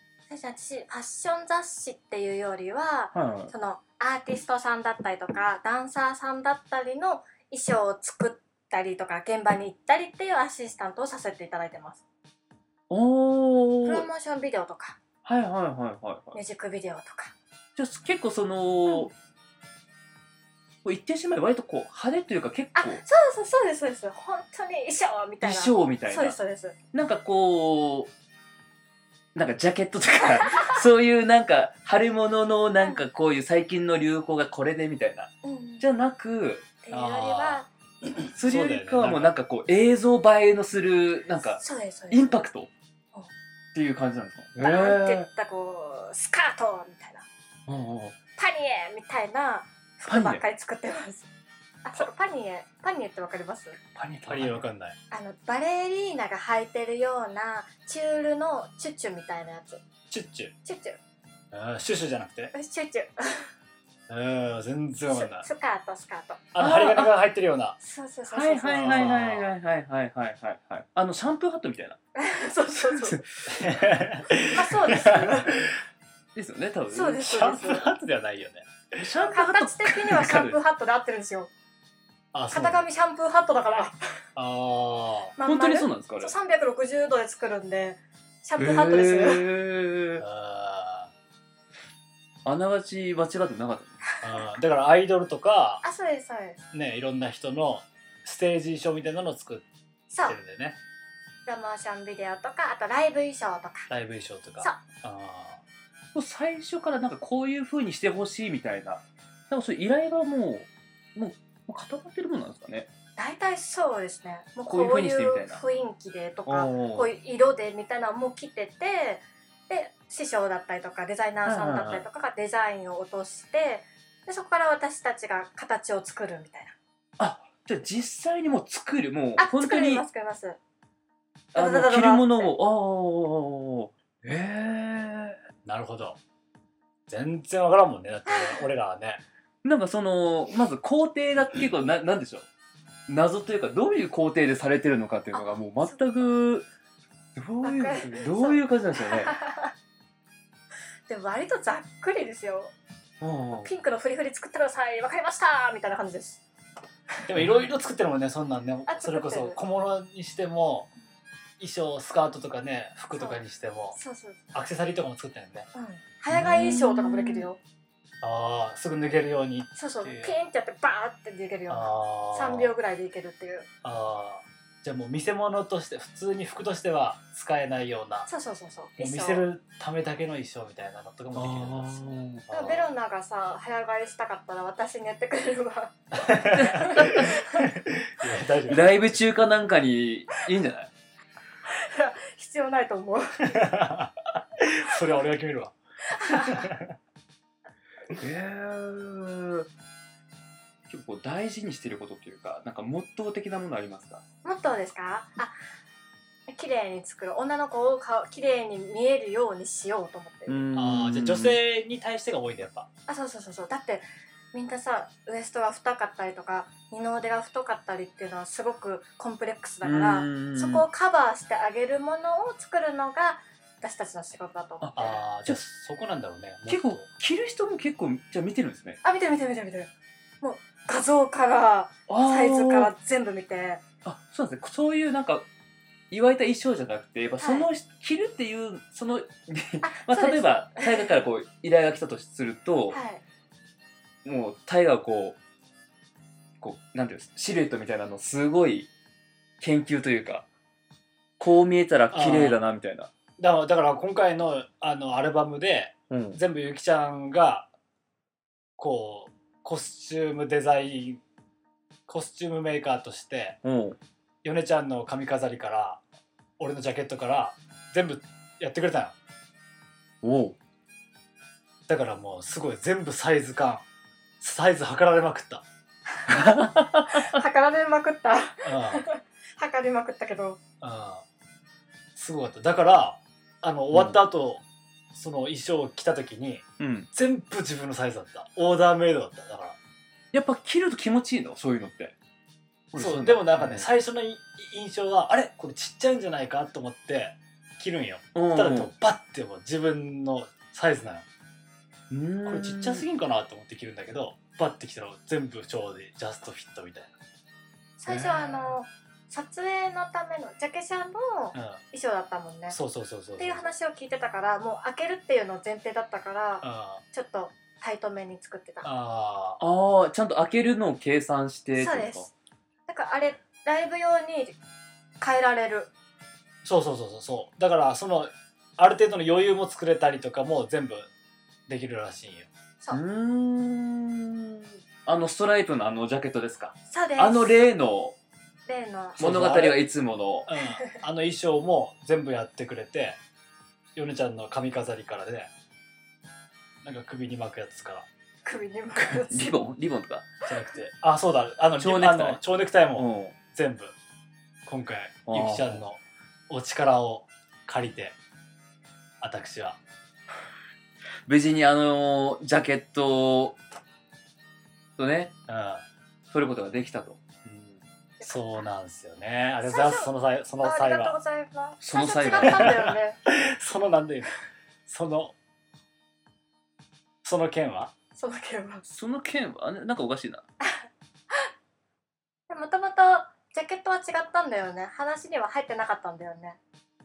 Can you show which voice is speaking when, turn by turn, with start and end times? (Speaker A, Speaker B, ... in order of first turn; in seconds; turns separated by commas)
Speaker A: 0.3-12.0, Speaker B: 3.1-3.5, Speaker B: 12.9-14.1, Speaker A: 13.8-15.0, Speaker B: 15.2-16.4, Speaker A: 16.3-17.3, Speaker B: 17.8-19.1, Speaker B: 20.8-23.0, Speaker A: 22.8-26.8, Speaker B: 25.4-26.4, Speaker B: 26.9-28.1, Speaker B: 29.3-36.6, Speaker A: 30.2-30.8, Speaker A: 35.4-35.8, Speaker A: 36.8-37.7, Speaker C: 36.9-39.3, Speaker B: 38.2-42.7, Speaker A: 41.6-42.4, Speaker B: 43.7-45.3, Speaker A: 44.6-47.3, Speaker B: 47.7-48.1, Speaker A: 48.4-51.3, Speaker B: 50.0-50.4, Speaker A: 51.8-53.8, Speaker B: 54.0-54.6, Speaker C: 54.2-55.0, Speaker A: 55.1-59.8, Speaker C: 60.1-60.5, Speaker A: 60.6-61.0, Speaker C: 61.5-62.5, Speaker A: 62.5-63.5, Speaker C: 64.1-65.5, Speaker A: 65.1-66.4, Speaker C: 66.5-67.8, Speaker B: 66.6-67.1, Speaker A: 67.8-69.3, Speaker B: 68.3-72.0, Speaker C: 68.7-69.5, Speaker A: 72.2-73.2, Speaker B: 72.8-73.5, Speaker C: 73.5-75.7, Speaker A: 74.5-75.5, Speaker B: 76.3-77.3, Speaker A: 76.9-77.9, Speaker C: 77.2-79.0, Speaker B: 79.0-80.6, Speaker A: 79.2-81.5, Speaker C: 82.3-82.8, Speaker A: 82.5-84.0, Speaker C: 84.3-85.3, Speaker A: 85.4-89.4, Speaker B: 85.5-86.3, Speaker B: 88.6-90.2, Speaker C: 90.2-91.1, Speaker B: 92.4-94.0, Speaker C: 94.2-95.8, Speaker A: 95.8-96.7, Speaker C: 96.7-99.7, Speaker A: 100.1-100.4, Speaker C: 100.2-100.8, Speaker A: 101.5-103.9, Speaker C: 103.9-105.6, Speaker B: 106.1-112.9, Speaker A: 113.2-126.7, Speaker B: 114.7-115.6, Speaker B: 116.5-117.1, Speaker B: 121.4-122.0, Speaker B: 127.2-130.0, Speaker A: 129.4-130.6, Speaker B: 131.5-135.4, Speaker A: 131.5-132.5, Speaker C: 135.6-136.2, Speaker C: 137.1-139.2, Speaker A: 138.3-138.6, Speaker B: 139.6-142.4, Speaker B: 143.1-146.7, Speaker A: 145.3-146.0, Speaker B: 147.3-149.3, Speaker A: 147.6-149.7, Speaker A: 151.1-152.7, Speaker B: 153.2-153.7, Speaker A: 153.6-156.4, Speaker C: 157.2-160.9, Speaker A: 158.9-159.6, Speaker C: 161.6-164.0, Speaker A: 163.1-163.4, Speaker A: 163.9-164.4, Speaker C: 164.5-165.7, Speaker A: 165.7-167.6, Speaker B: 166.3-167.5, Speaker C: 168.2-170.3, Speaker A: 169.8-173.7, Speaker C: 171.7-172.7, Speaker C: 173.8-178.3, Speaker A: 178.3-179.4, Speaker C: 179.0-182.8, Speaker B: 181.3-182.4, Speaker A: 182.5-187.6, Speaker C: 186.1-189.1, Speaker B: 186.6-187.3, Speaker B: 188.7-190.9, Speaker A: 191.7-193.6, Speaker C: 193.4-195.7, Speaker A: 196.1-196.7, Speaker C: 196.3-196.9, Speaker B: 198.1-199.7, Speaker B: 200.9-204.2, Speaker A: 204.4-205.6, Speaker A: 206.5-210.6, Speaker B: 210.5-211.6, Speaker C: 210.7-212.9, Speaker A: 213.1-225.2, Speaker B: 219.8-220.8, Speaker B: 224.8-225.6, Speaker C: 224.9-227.1, Speaker B: 226.7-229.0, Speaker A: 229.0-229.9, Speaker A: 230.4-233.8, Speaker B: 232.1-232.9, Speaker B: 234.0-235.4, Speaker B: 236.1-243.0, Speaker A: 237.4-237.7, Speaker A: 239.8-241.1, Speaker A: 242.9-243.2, Speaker B: 244.2-245.4, Speaker B: 246.6-248.9, Speaker B: 249.6-250.4, Speaker B: 251.4-253.1, Speaker C: 252.1-252.6, Speaker C: 253.4-257.7, Speaker B: 256.1-256.4, Speaker C: 258.8-261.2, Speaker C: 262.1-263.6, Speaker B: 263.6-264.0, Speaker C: 264.4-266.0, Speaker C: 266.6-269.1, Speaker B: 270.2-270.6, Speaker C: 271.9-273.8, Speaker C: 274.4-275.6, Speaker A: 276.3-280.6, Speaker B: 276.3-277.3, Speaker C: 278.6-279.0, Speaker C: 280.8-281.2, Speaker C: 282.1-289.8, Speaker B: 283.9-284.2, Speaker B: 286.8-287.1, Speaker B: 290.3-292.1, Speaker B: 292.9-293.9, Speaker C: 292.9-301.2, Speaker B: 298.3-298.9, Speaker B: 302.1-303.0, Speaker C: 302.4-307.1, Speaker A: 308.0-312.8, Speaker C: 308.1-308.7, Speaker C: 311.5-311.8, Speaker C: 312.7-313.7, Speaker A: 313.4-318.9, Speaker C: 316.6-317.0, Speaker C: 318.8-319.6, Speaker B: 319.6-322.3, Speaker A: 321.8-322.3, Speaker A: 322.9-324.6, Speaker A: 325.2-325.9, Speaker C: 326.6-331.1, Speaker C: 331.7-332.5, Speaker B: 332.9-338.1, Speaker A: 336.9-337.6, Speaker A: 338.7-339.2, Speaker C: 339.2-339.8, Speaker B: 339.2-340.5, Speaker C: 340.4-343.2, Speaker C: 343.9-345.5, Speaker C: 346.8-348.1, Speaker A: 348.4-349.6, Speaker B: 349.0-350.3, Speaker C: 350.4-353.9, Speaker B: 351.8-353.3, Speaker C: 354.6-358.1, Speaker B: 355.3-355.8, Speaker C: 359.2-359.8, Speaker B: 361.2-363.6, Speaker B: 365.0-365.3, Speaker C: 365.5-365.8, Speaker B: 366.3-367.8, Speaker A: 368.2-368.6, Speaker C: 368.2-371.1, Speaker A: 369.6-373.2, Speaker B: 371.8-372.9, Speaker C: 372.4-375.3, Speaker C: 377.2-377.9, Speaker A: 378.1-378.9, Speaker B: 378.9-380.4, Speaker A: 380.6-381.5, Speaker A: 382.5-386.6